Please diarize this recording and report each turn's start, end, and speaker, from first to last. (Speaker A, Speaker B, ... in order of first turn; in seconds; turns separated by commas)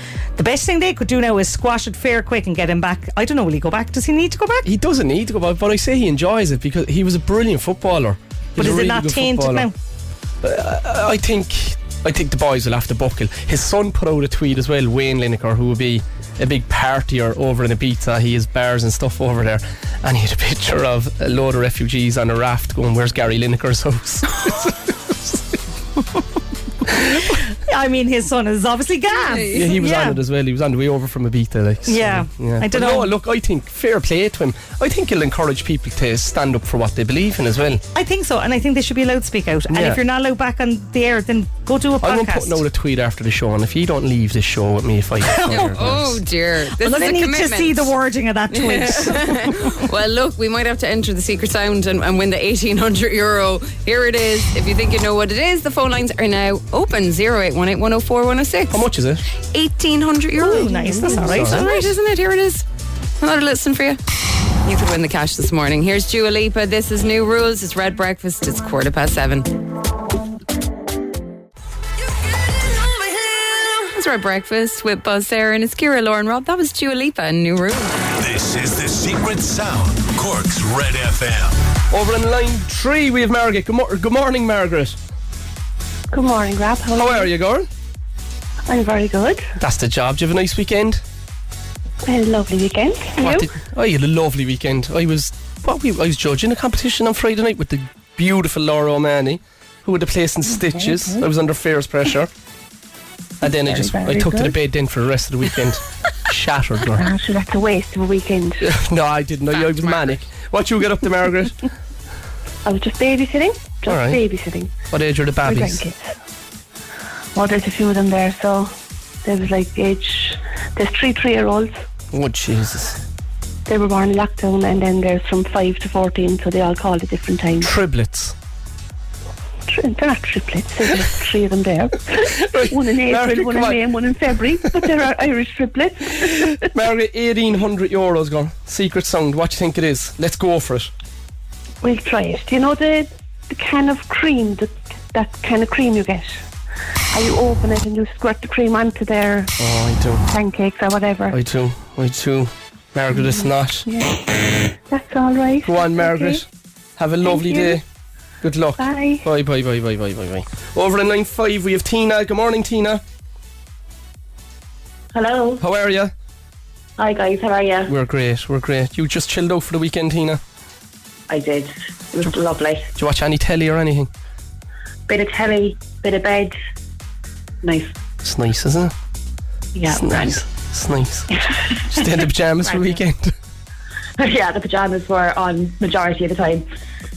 Speaker A: 0.4-4.7, Speaker B: 4.6-9.7, Speaker A: 8.6-9.7, Speaker B: 10.4-24.7, Speaker A: 26.9-30.2, Speaker C: 29.2-29.7, Speaker B: 29.5-37.8, Speaker A: 31.9-33.1, Speaker A: 37.9-42.6, Speaker B: 39.7-40.0, Speaker B: 42.0-46.2, Speaker A: 45.3-45.8, Speaker C: 45.5-47.9, Speaker A: 46.8-49.7, Speaker C: 48.5-58.8, Speaker B: 58.7-59.2, Speaker C: 59.5-62.6, Speaker A: 60.4-61.9, Speaker B: 60.7-61.6, Speaker C: 63.2-64.0, Speaker C: 64.7-69.5, Speaker C: 73.7-78.0, Speaker D: 78.2-81.6, Speaker B: 81.9-85.0, Speaker E: 86.1-87.3, Speaker B: 87.0-87.7, Speaker E: 88.7-89.5, Speaker B: 89.6-91.0, Speaker E: 92.0-93.5, Speaker B: 93.2-102.3, Speaker E: 100.5-101.2, Speaker B: 103.4-107.1, Speaker E: 103.4-104.6, Speaker E: 107.0-108.6, Speaker B: 108.6-111.6, Speaker C: 109.5-110.2, Speaker E: 112.7-114.7, Speaker B: 113.8-114.2, Speaker B: 114.9-115.8, Speaker E: 115.4-116.1, Speaker E: 117.3-118.7, Speaker E: 119.2-121.7, Speaker B: 122.1-123.0, Speaker E: 123.7-127.7, Speaker B: 127.6-128.3, Speaker E: 129.7-136.7, Speaker B: 132.5-133.8, Speaker B: 134.7-134.9, Speaker B: 136.7-140.9, Speaker E: 141.8-146.4, Speaker E: 147.1-149.5, Speaker B: 149.6-150.2, Speaker E: 150.3-151.4, Speaker B: 151.3-153.9, Speaker E: 153.1-154.2, Speaker E: 154.9-156.4, Speaker B: 155.6-156.4, Speaker B: 157.0-157.8, Speaker E: 157.2-157.8, Speaker B: 158.4-163.0, Speaker E: 158.8-159.2, Speaker F: 165.1-165.6, Speaker B: 165.6-166.1, Speaker F: 167.0-167.9, Speaker B: 167.9-170.4, Speaker F: 171.3-172.8, Speaker B: 173.0-174.1, Speaker F: 175.1-176.6, Speaker F: 177.6-177.9, Speaker B: 178.2-178.9, Speaker F: 179.7-180.4, Speaker B: 179.9-181.3, Speaker B: 181.9-183.3, Speaker F: 184.2-186.6